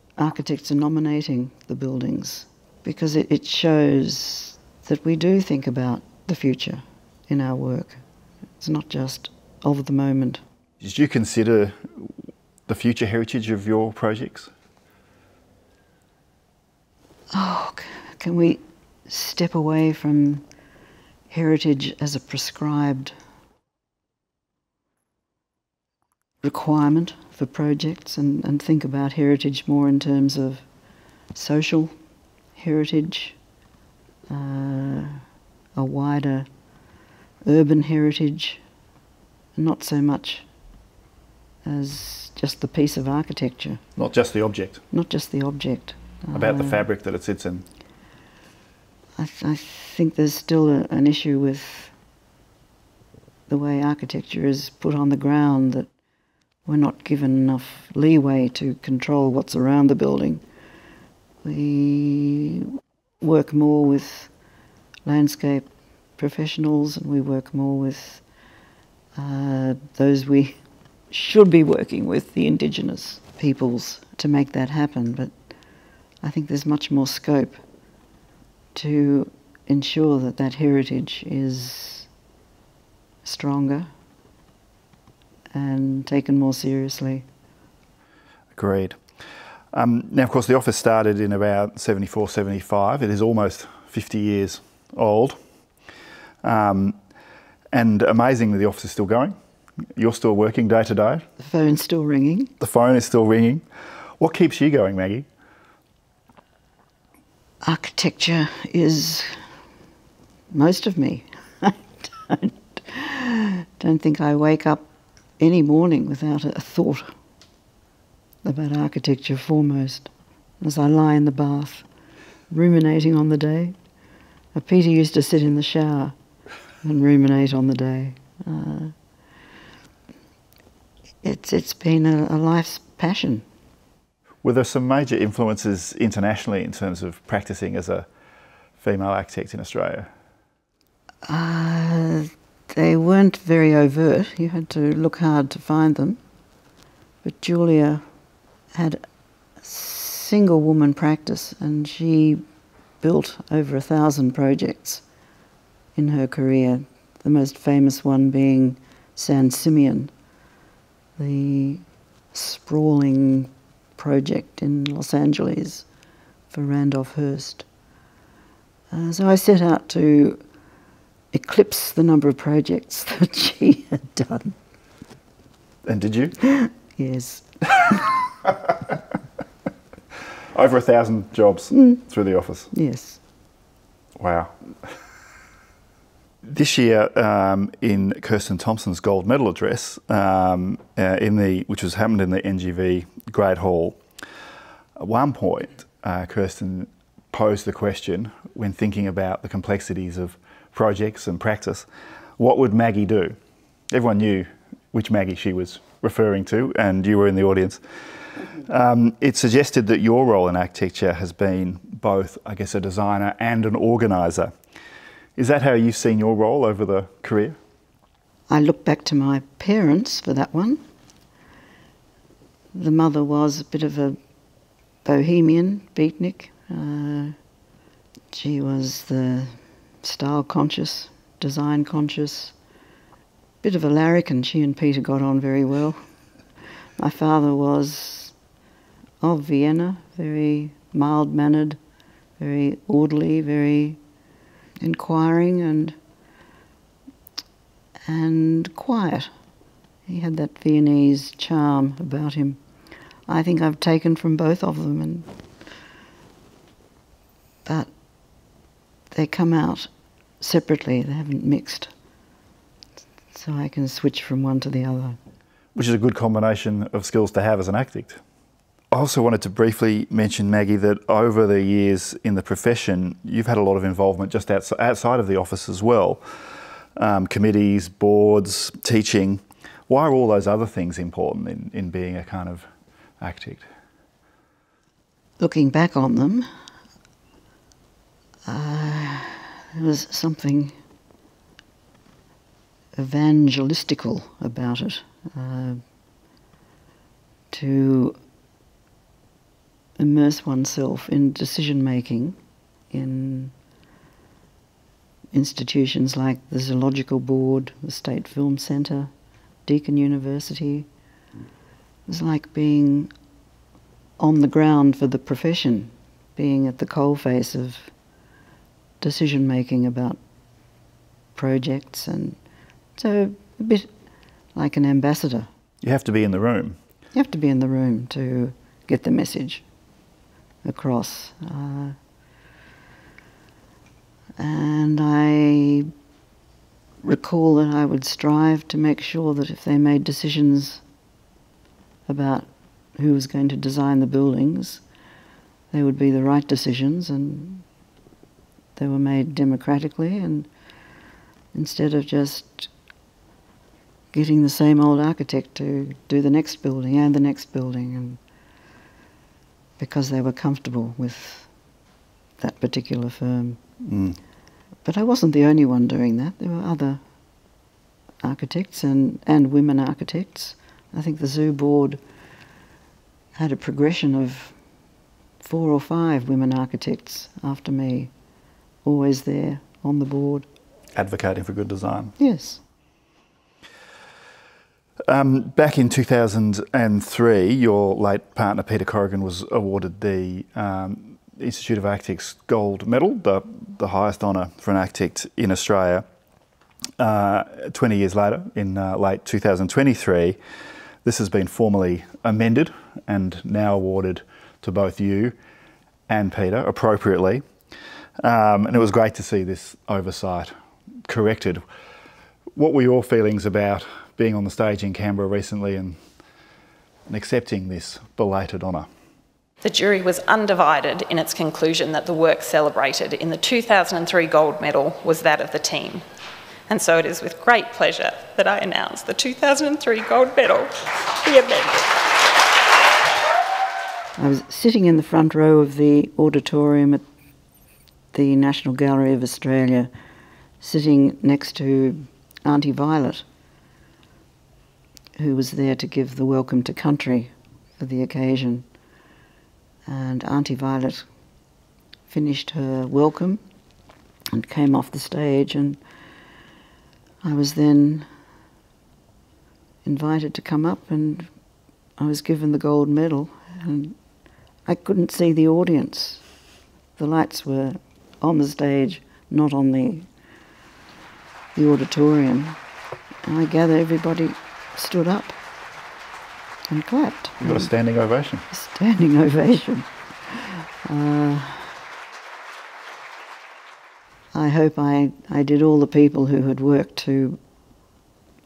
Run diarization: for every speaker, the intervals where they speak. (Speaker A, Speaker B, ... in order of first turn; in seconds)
Speaker A: 0.2-8.0, 8.6-10.4, 17.3-20.4, 21.3-23.1, 26.4-30.6, 31.3-31.9, 32.5-33.4, 34.3-35.2, 35.8-36.5, 37.4-38.6, 39.5-40.4, 41.6-43.8, 44.9-46.9, 49.1-51.9, 53.5-55.9, 56.6-60.4, 61.4-64.3, 65.0-68.2, 69.2-75.3, 76.2-77.6, 78.7-82.1, 83.2-83.9, 85.5-87.2, 101.4-102.5, 107.6-109.4, 110.5-114.8, 115.4-117.1, 118.4-121.8, 122.5-123.8, 124.5-126.1, 126.8-128.9, 131.2-133.4, 141.2-146.2, 147.2-148.0, 148.7-149.0, 149.6-152.4, 153.0-155.0, 155.9-160.1, 161.2-165.8, 166.5-167.6, 168.9-170.4, 171.3-174.6, 176.4-178.1, 181.7-182.0, 182.7-183.2, 218.5-220.8, 222.7-224.2, 225.0-227.3, 228.3-232.5, 233.6-236.0, 237.0-238.3, 239.2-241.8, 242.4-244.0, 244.8-245.9, 248.1-249.3, 250.1-252.6, 253.3-255.3, 257.6-257.9, 259.1-259.9, 260.4-261.9, 263.3-265.2, 285.4-286.4, 288.4-290.7, 292.9-295.8, 297.5-298.1, 300.0-302.4, 302.9-303.5, 305.3-309.1, 309.6-310.9, 312.1-313.1, 314.2-317.9, 319.0-320.2, 321.3-322.4, 323.0-323.9, 324.5-325.5, 327.1-329.6, 330.6-332.0, 334.4-335.9, 337.0-340.8, 342.1-344.8, 345.7-347.6, 348.8-350.5, 351.5-352.7, 354.1-358.2, 359.8-361.5, 362.4-363.6, 364.8-367.0, 368.2-372.0, 373.4-374.6, 375.4-378.1, 378.8-380.4, 382.2-382.6, 434.2-437.0, 438.1-439.9, 440.6-443.2, 445.1-448.6, 449.9-451.1, 452.1-453.4, 454.3-455.8, 457.2-458.1, 459.8-461.3, 462.0-464.0, 464.6-466.2, 467.0-470.1, 471.5-472.6, 473.2-475.4, 476.7-477.7, 478.5-481.8, 484.3-487.4
Speaker B: 10.8-12.1, 12.7-14.5, 44.0-44.8, 46.3-47.6, 88.5-89.0, 89.7-95.4, 96.4-97.0, 97.7-99.3, 99.9-101.2, 102.6-103.6, 104.2-105.2, 134.4-138.1, 138.8-140.1, 175.8-176.4, 178.5-178.9, 180.5-182.7, 184.2-184.5, 186.4-194.0, 195.0-201.8, 202.4-203.4, 203.9-207.8, 208.5-214.5, 215.4-217.6, 265.7-268.2, 268.9-276.2, 277.0-282.7, 283.2-283.6, 325.8-326.8, 363.8-364.2, 380.9-382.1, 385.1-396.0, 397.0-400.4, 401.0-405.4, 406.1-407.4, 408.2-410.5, 411.1-411.6, 412.6-416.0, 417.1-418.9, 477.4-478.5
Speaker C: 419.6-426.0, 426.7-431.9